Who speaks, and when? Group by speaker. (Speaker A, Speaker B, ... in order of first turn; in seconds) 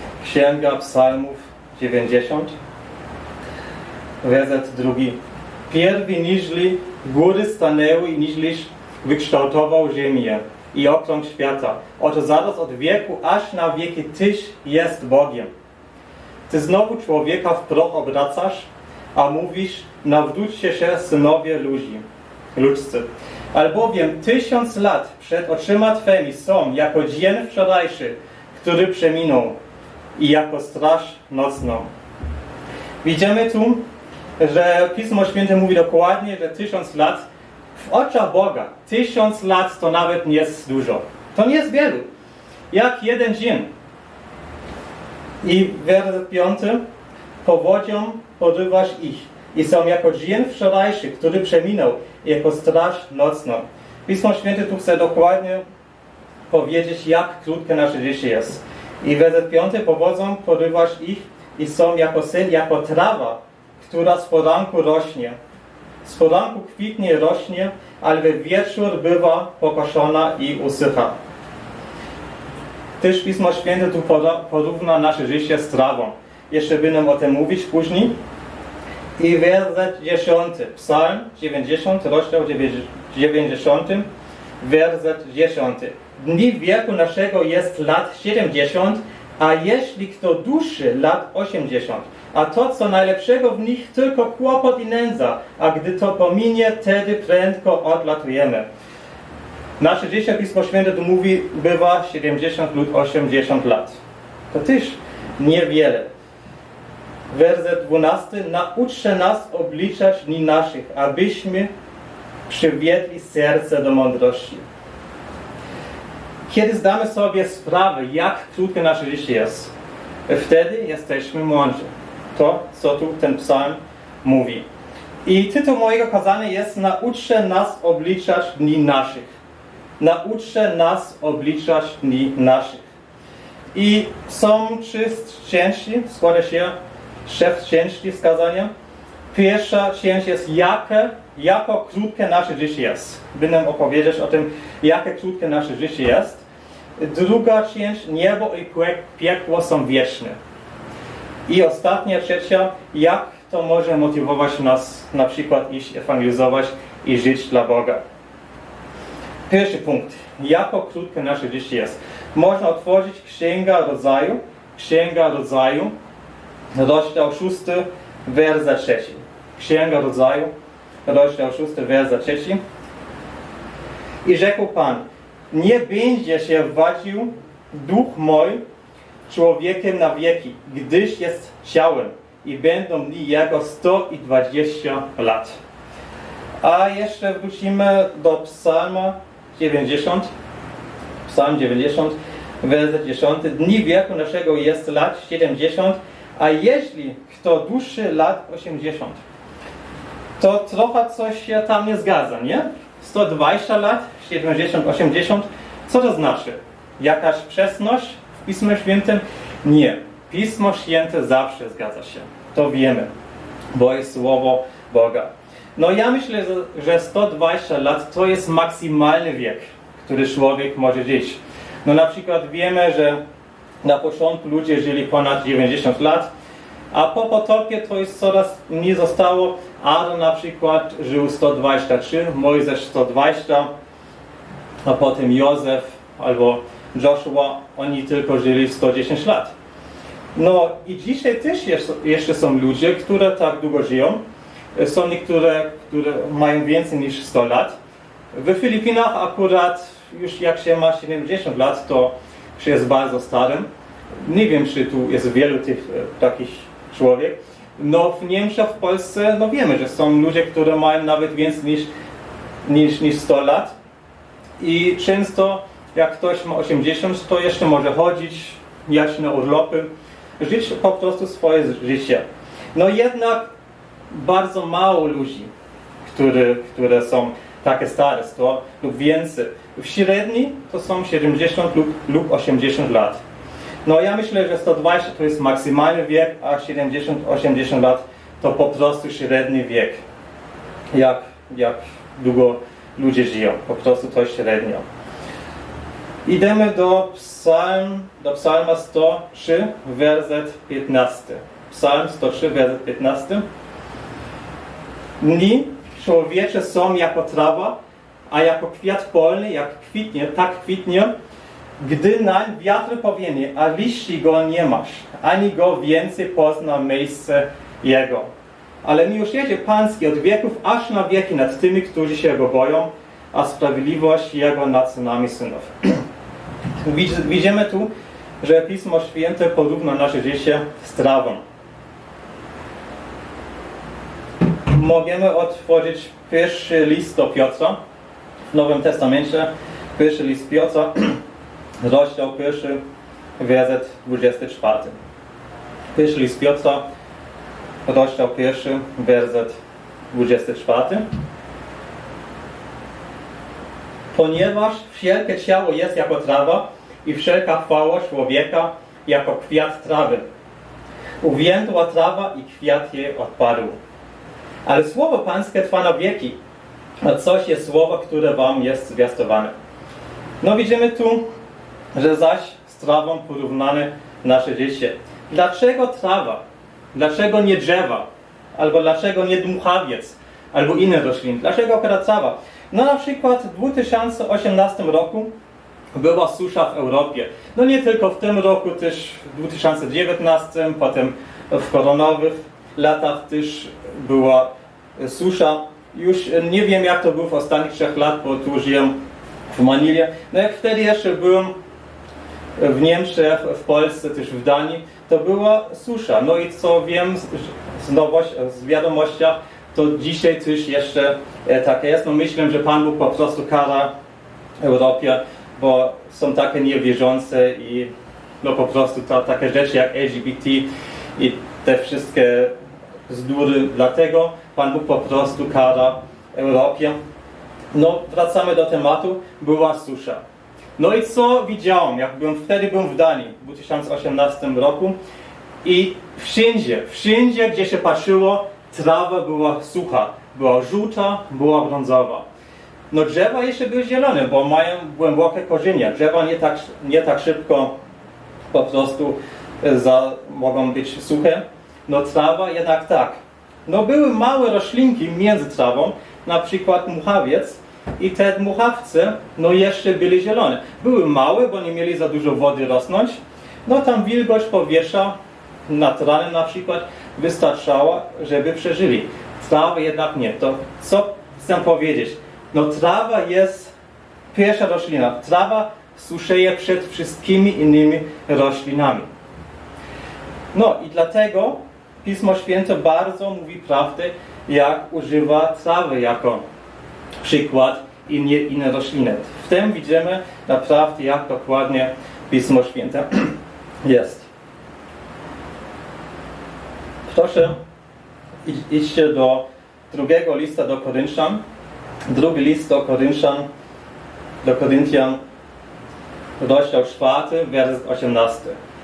Speaker A: 0.2-2.5, 4.2-5.2, 5.7-15.5, 16.5-22.0, 22.5-29.5, 30.2-31.9, 33.0-33.8, 34.4-42.1, 42.7-43.7, 45.4-46.8, 47.4-55.6, 56.5-65.4, 66.0-71.2, 73.0-78.1, 79.2-84.1, 84.6-98.7, 99.8-104.0, 104.5-106.1, 107.3-111.7, 112.5-114.6, 116.5-119.7, 120.3-124.6, 125.2-129.3, 130.0-132.8, 133.7-136.7, 137.2-138.7, 139.3-146.4, 147.0-150.4, 151.5-158.0, 159.5-165.9, 166.8-170.5, 171.1-172.6, 174.2-178.6, 179.3-185.6, 186.6-190.3, 191.2-199.2, 200.4-213.1, 213.7-223.2, 223.8-226.3, 226.9-233.7, 234.8-239.5, 240.3-244.2, 244.8-247.7, 248.3-253.7, 254.2-261.9, 262.6-263.7, 264.6-269.9, 270.4-272.2, 272.7-273.4, 274.1-275.5, 276.0-283.2, 283.8-290.0, 290.9-294.8, 296.2-303.4, 305.2-307.8, 308.3-311.1, 311.8-318.3, 318.8-326.0, 326.8-327.9, 328.4-331.4, 334.7-337.8, 338.5-341.2, 341.8-342.8, 343.4-344.9, 345.9-346.8, 347.9-349.5, 350.1-351.0, 354.1-360.3, 361.2-363.8, 364.6-366.4, 367.0-369.5, 370.4-371.2, 371.9-376.4, 376.9-385.3, 385.9-398.9, 399.5-401.5, 402.6-413.9, 414.6-417.9, 418.4-422.5, 423.1-427.0, 427.7-430.2, 430.8-435.0, 435.6-442.2, 442.9-447.7, 448.5-465.1, 465.7-473.7, 474.3-479.1, 480.5-486.4, 487.2-494.3, 497.1-497.6, 498.4-501.4, 502.1-503.5, 504.4-505.2, 506.4-508.6